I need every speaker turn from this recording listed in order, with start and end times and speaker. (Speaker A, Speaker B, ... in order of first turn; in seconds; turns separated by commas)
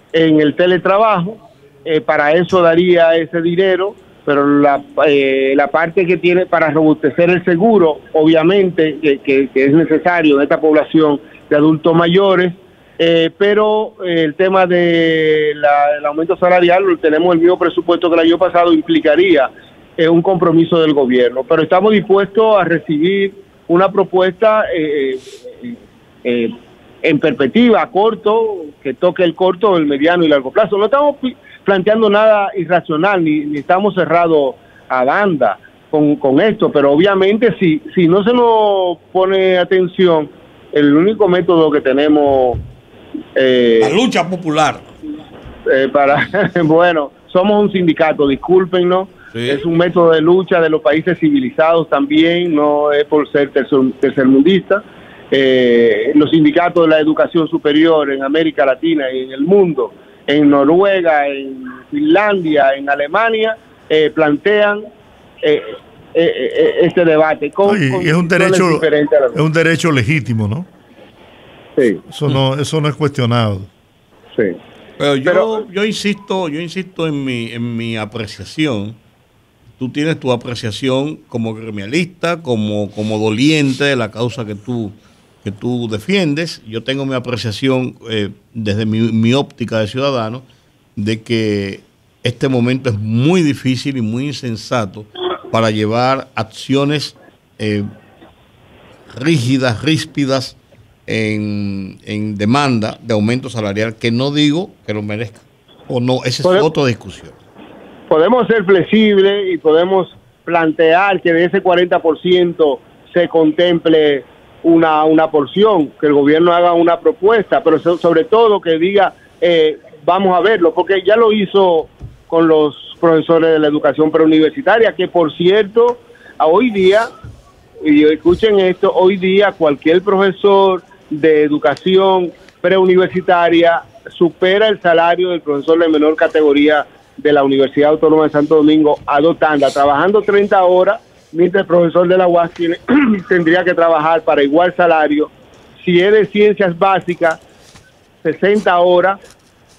Speaker A: 0.1-42.6, Speaker A: 43.4-43.9, Speaker B: 43.8-44.8, Speaker A: 45.7-64.8, Speaker B: 49.3-49.6, Speaker A: 65.4-69.4, Speaker C: 67.6-70.7, Speaker A: 71.8-72.0, Speaker C: 72.1-73.7, Speaker B: 75.0-79.0, Speaker A: 75.3-75.6, Speaker B: 79.8-90.5, Speaker B: 91.0-97.9, Speaker B: 99.1-107.4, Speaker A: 108.1-127.1, Speaker A: 127.8-147.4, Speaker A: 148.2-149.2